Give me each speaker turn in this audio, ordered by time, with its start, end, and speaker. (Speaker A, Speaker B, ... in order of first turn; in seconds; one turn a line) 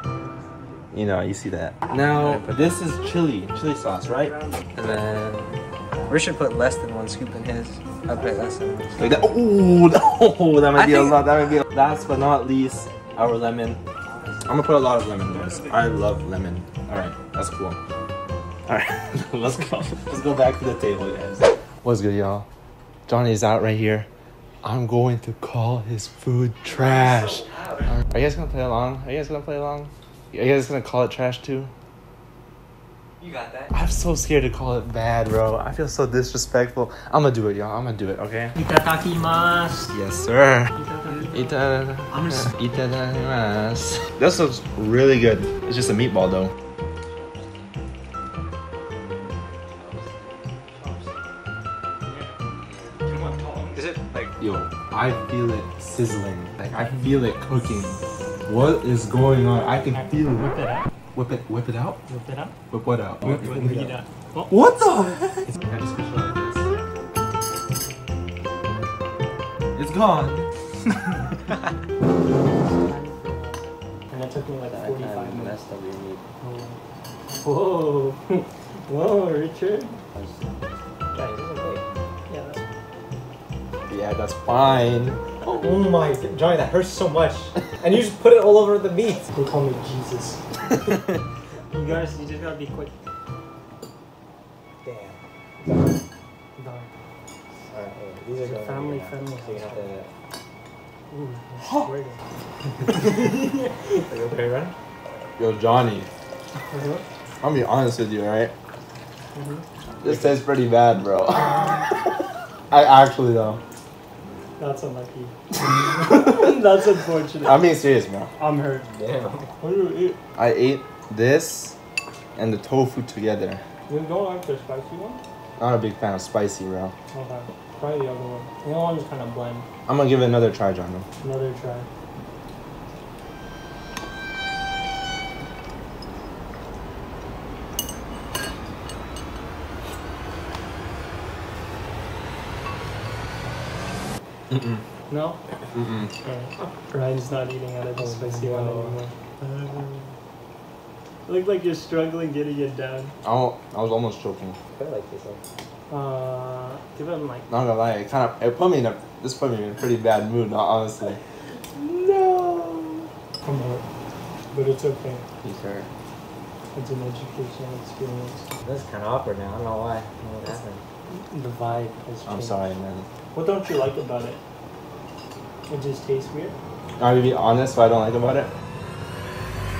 Speaker A: 0.9-4.3
Speaker B: 2.2-2.8
Speaker C: 3.8-4.8
Speaker B: 4.8-5.5
Speaker B: 6.1-9.2
Speaker A: 9.0-13.8
Speaker B: 10.8-11.1
Speaker A: 14.4-17.8
Speaker C: 15.2-15.9
Speaker A: 18.7-22.5
Speaker A: 23.1-24.1
Speaker A: 24.6-31.7
Speaker B: 26.6-27.9
Speaker B: 33.2-33.7
Speaker A: 33.7-38.6
Speaker C: 38.5-39.9
Speaker A: 39.9-40.7
Speaker C: 40.8-41.6
Speaker A: 41.3-46.5
Speaker B: 47.1-47.5
Speaker B: 49.7-51.0
Speaker C: 52.1-52.4
Speaker C: 53.0-53.9
Speaker B: 53.7-54.3
Speaker A: 54.4-60.5
Speaker C: 59.9-60.9
Speaker A: 61.1-62.0
Speaker C: 62.1-62.5
Speaker A: 62.7-63.9
Speaker C: 63.2-64.5
Speaker B: 63.4-63.8
Speaker A: 64.5-66.7
Speaker A: 69.8-70.5
Speaker C: 72.3-75.6
Speaker B: 74.7-76.2
Speaker C: 76.4-76.8
Speaker C: 77.3-80.0
Speaker B: 80.2-80.6
Speaker B: 81.1-81.8
Speaker C: 82.3-82.7
Speaker A: 83.9-85.7
Speaker B: 85.6-89.2
Speaker C: 89.3-90.4
Speaker C: 91.7-92.9
Speaker B: 94.8-95.2
Speaker C: 96.6-96.9
Speaker B: 97.7-100.1
Speaker C: 98.4-99.9
Speaker C: 101.1-102.2
Speaker C: 102.9-104.0
Speaker B: 104.1-104.7
Speaker A: 105.4-106.1
Speaker C: 106.7-107.0
Speaker A: 107.4-108.5
Speaker C: 109.3-109.6
Speaker A: 110.0-112.0
Speaker A: 112.7-113.6
Speaker C: 114.6-117.6
Speaker A: 117.4-118.3
Speaker C: 118.4-118.9
Speaker B: 118.8-119.5
Speaker C: 119.6-120.2
Speaker A: 120.4-121.8
Speaker A: 122.4-123.6
Speaker C: 123.9-125.2
Speaker A: 125.6-126.9
Speaker C: 127.1-129.7
Speaker A: 129.9-131.1
Speaker C: 131.2-131.9
Speaker A: 144.5-144.8
Speaker C: 145.1-145.4
Speaker A: 145.7-146.1
Speaker C: 146.2-150.2
Speaker B: 148.0-149.0
Speaker C: 151.3-153.1
Speaker A: 153.2-154.6
Speaker B: 154.7-155.4
Speaker C: 155.9-157.5
Speaker A: 157.5-161.2
Speaker A: 161.9-162.9
Speaker C: 163.4-163.8
Speaker C: 164.5-165.2
Speaker A: 165.4-165.9
Speaker C: 166.7-168.5
Speaker B: 168.6-170.8
Speaker C: 171.1-172.6
Speaker A: 172.3-173.1
Speaker C: 173.3-174.4
Speaker C: 175.7-176.6
Speaker A: 177.0-178.6